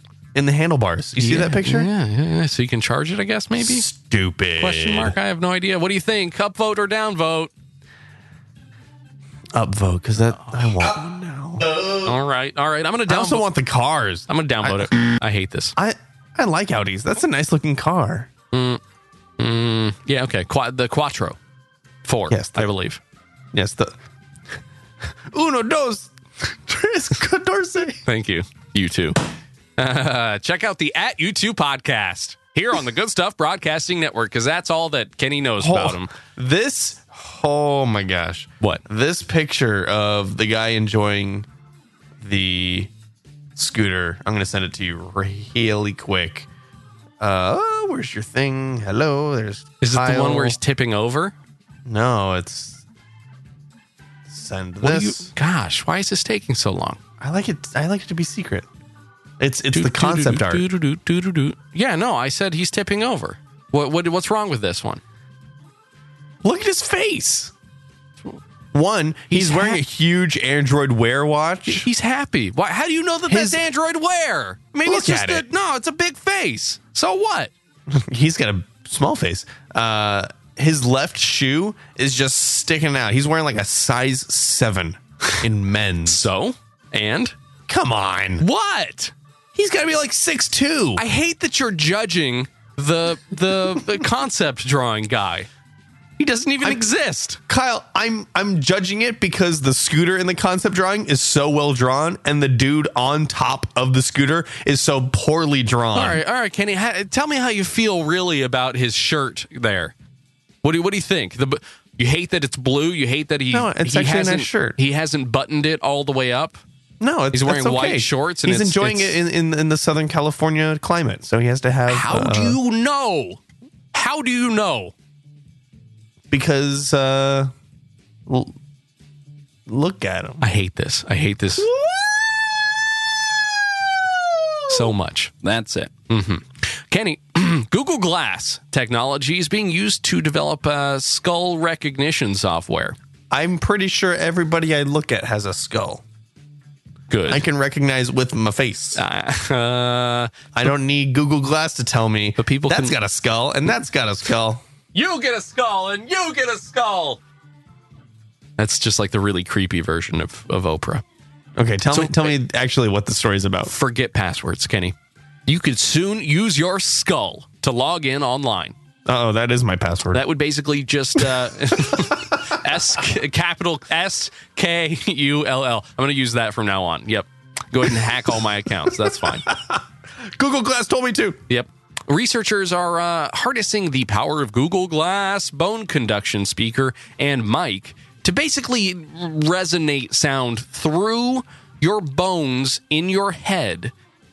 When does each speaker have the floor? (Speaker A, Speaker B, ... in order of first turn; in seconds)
Speaker A: 0.3-1.9, 3.5-5.1, 9.5-12.1, 13.1-14.9, 15.8-18.3, 22.3-22.7, 23.5-23.9, 25.3-28.0, 35.6-41.5, 42.2-42.9, 43.5-46.5, 47.2-50.6, 51.9-52.8, 54.3-55.3, 57.2-58.7, 59.4-60.6, 66.4-67.5, 68.7-71.8, 73.3-73.6, 74.8-75.5, 77.9-86.3, 87.7-88.4, 89.5-91.0, 97.5-106.2, 113.5-114.8, 117.0-122.6, 126.3-127.5, 128.2-128.5, 129.7-130.4, 131.7-132.1, 134.2-134.5, 143.3-146.0, 147.3-149.0, 150.5-154.6, 161.6-163.7, 169.1-170.2, 171.8-172.5, 178.9-181.4
Speaker B: 1.2-3.8, 4.6-7.5, 12.0-13.5, 14.3-15.7, 18.5-18.8, 19.4-21.4, 22.0-23.0, 28.1-29.2, 29.8-36.1, 49.8-51.3, 54.8-57.0, 59.7-65.0, 69.3-69.8, 71.7-77.5, 86.0-87.3, 88.4-89.1, 91.0-95.5, 96.2-97.4, 105.9-109.9, 110.6-116.6, 117.3-119.2, 121.9-123.4, 123.9-124.9, 130.4-131.7, 134.7-143.0, 147.1-147.4, 148.9-150.7, 152.4-152.9, 154.9-157.2, 158.6-161.0, 161.9-162.3, 163.7-164.9, 165.4-168.7, 170.1-179.5, 181.5-193.9